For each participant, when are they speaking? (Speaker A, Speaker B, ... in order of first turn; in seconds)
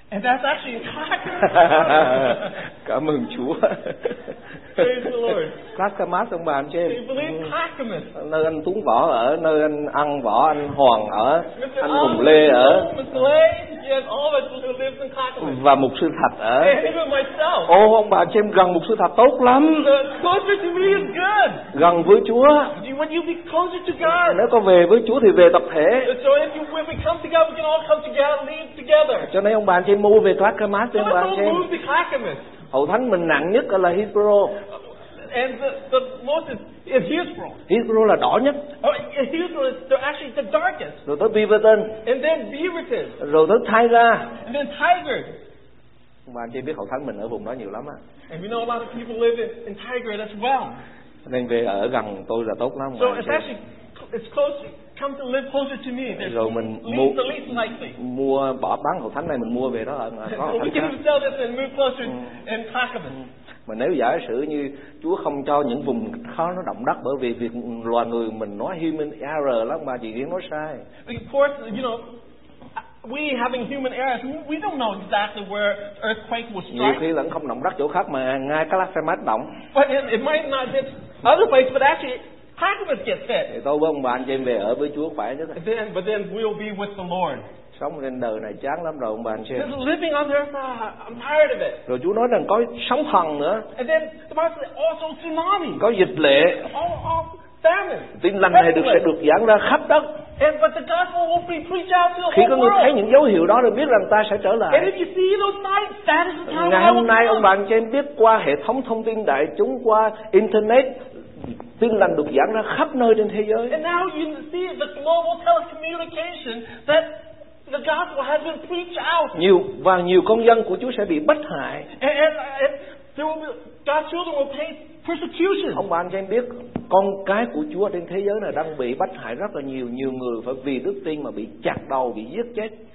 Speaker A: 0.1-2.6, 4.7-5.7, 6.8-8.1, 11.5-15.6, 16.6-17.7, 19.8-21.7, 22.8-24.4, 26.0-29.3, 30.9-32.5, 35.2-37.6, 38.8-41.0, 42.0-43.2, 44.4-45.4, 48.3-50.8, 53.0-58.0, 60.3-63.2, 71.0-72.2, 72.8-77.0, 79.7-83.5, 85.6-87.4, 89.5-91.8, 93.8-95.8, 96.6-99.0, 100.4-103.0, 104.7-107.5, 113.7-119.4, 121.9-125.8
Speaker B: 1.5-4.9, 5.6-7.5, 8.1-12.9, 15.4-16.8, 17.7-19.9, 21.7-22.8, 24.0-26.1, 29.2-31.7, 32.7-34.6, 37.7-38.7, 41.0-42.0, 43.2-44.4, 46.3-48.0, 51.2-53.5, 56.1-61.0, 63.7-70.8, 76.7-79.6, 83.5-85.6, 87.8-89.7, 91.9-93.7, 95.8-96.7, 98.2-100.1, 102.3-104.9, 106.5-113.8, 119.3-121.9, 125.7-132.7